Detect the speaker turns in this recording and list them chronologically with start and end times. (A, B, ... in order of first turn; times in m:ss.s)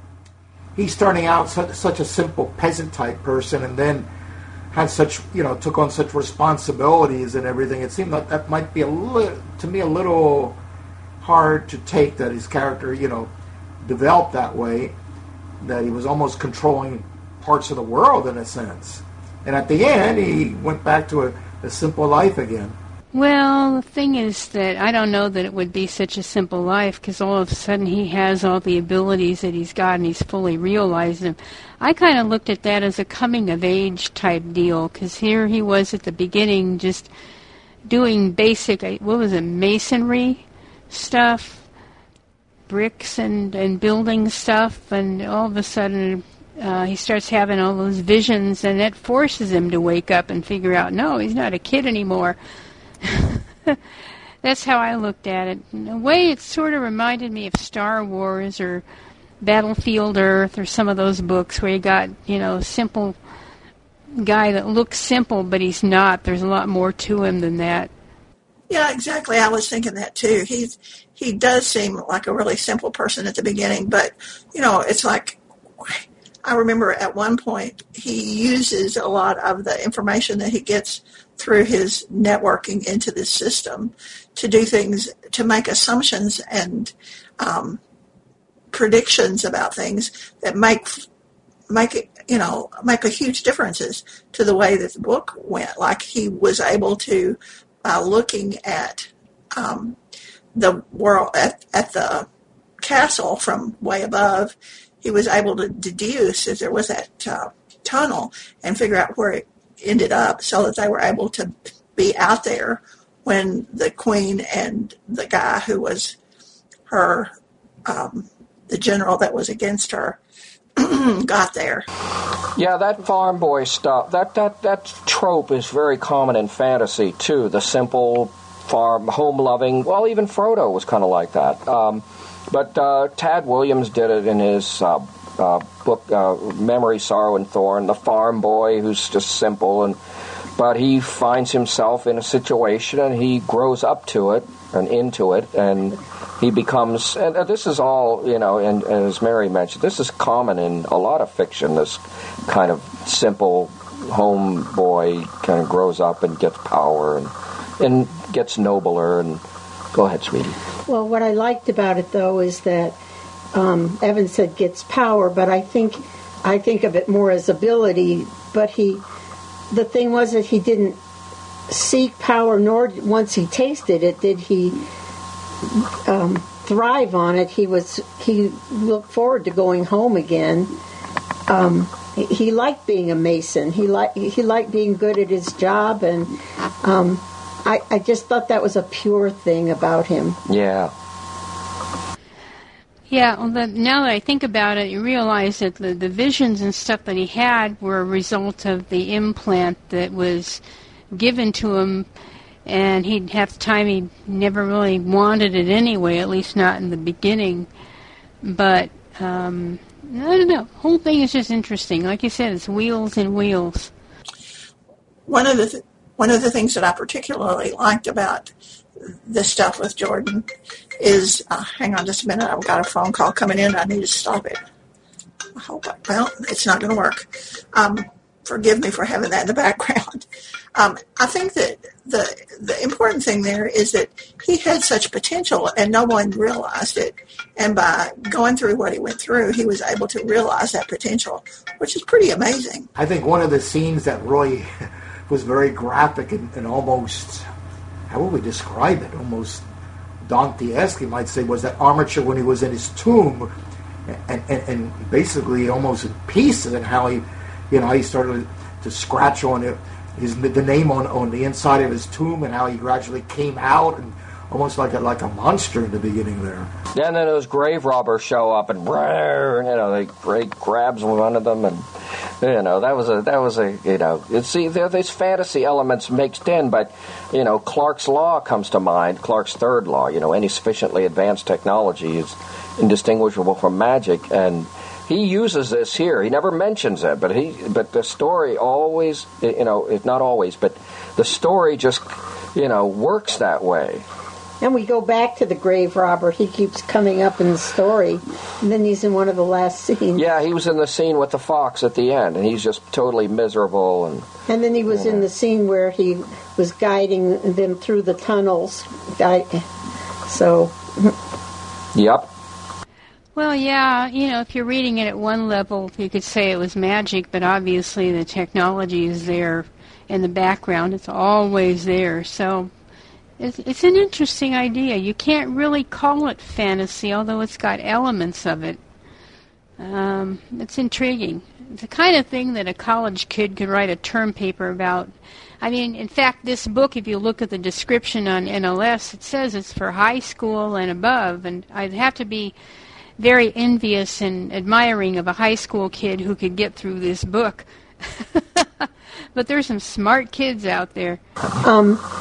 0:00.8-0:04.1 A
0:04.7-0:10.6 A
0:11.2-0:13.3 A
0:13.8-0:15.0 A
0:15.6-0:22.8 A
0:23.1-0:37.1 B
0:37.9-0:41.6 B
0:42.7-0:52.4 B
0:53.0-0:53.8 B
0:54.4-0:58.8 B
0:59.4-1:03.2 B
1:04.2-1:07.9 B
1:08.7-1:27.8 C
1:28.7-1:31.0 C
1:31.7-1:40.0 C
1:40.6-1:42.3 C
1:42.8-1:56.2 C
1:56.9-1:57.3 C
1:57.9-2:00.2 C
2:00.8-2:01.9 C
2:02.6-2:20.0 D
2:20.6-2:39.4 D
2:39.9-2:40.6 D
2:40.9-2:43.0 E
2:43.5-2:49.0 E
2:49.7-2:51.0 E
2:51.7-2:54.8 E
2:55.7-3:00.8 E
3:01.5-3:10.4 E
3:10.5-3:10.9 D
3:13.1-3:20.6 B
3:21.1-3:22.1 B
3:22.7-3:27.7 B
3:28.4-3:33.9 B
3:35.3-3:40.5 C
3:41.0-3:44.6 C
3:45.6-4:02.9 C
4:03.0-4:04.7 A
4:05.3-4:07.4 A
4:08.1-4:09.6 A
4:10.3-4:13.5 A
4:14.1-4:26.7 A
4:26.9-4:54.1 D
4:54.6-5:00.3 E
5:00.2-5:04.3 D
5:04.5-5:09.7 E
5:04.9-5:05.2 D
5:10.3-5:11.2 E
5:12.0-5:12.3 D
5:13.4-5:22.7 B
5:23.4-5:28.8 B
5:29.8-5:42.6 B
5:43.2-5:51.2 B
5:51.6-5:52.0 E